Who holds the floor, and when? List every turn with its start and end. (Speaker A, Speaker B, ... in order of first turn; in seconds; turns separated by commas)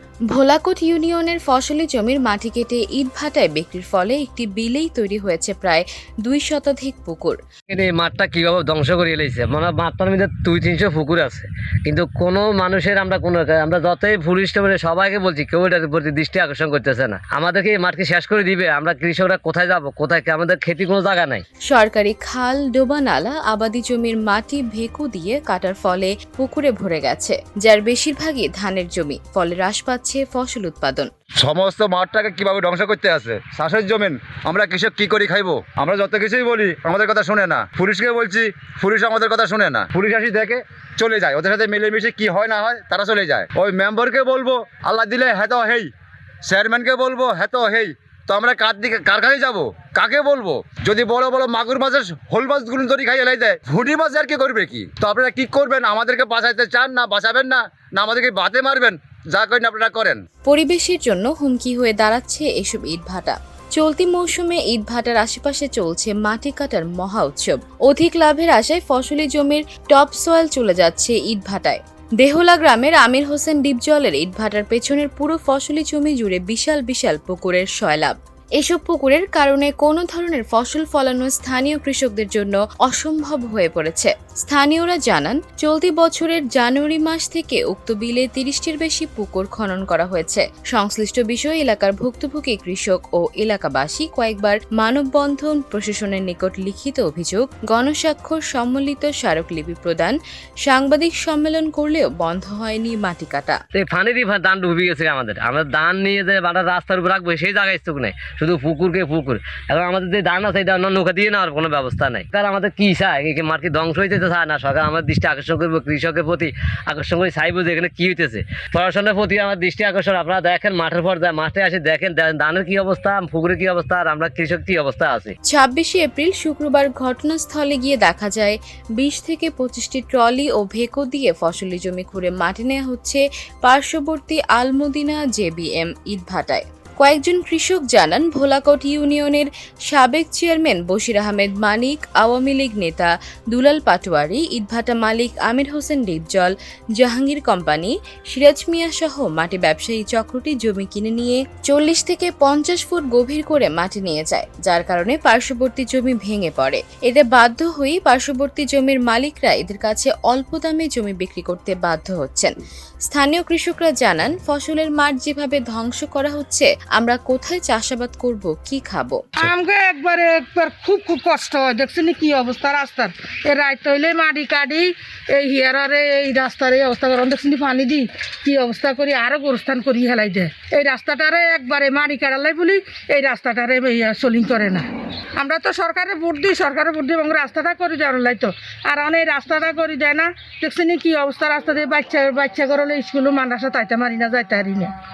Speaker A: 0.3-7.4, Speaker B: 7.7-21.4, Speaker A: 21.7-31.1, Speaker C: 31.4-45.9, Speaker C: 46.5-60.2, Speaker A: 60.5-103.6, Speaker B: 103.7-125.3, Speaker A: 125.5-162.5, Speaker A: 163.1-169.4, Speaker D: 169.4-194.9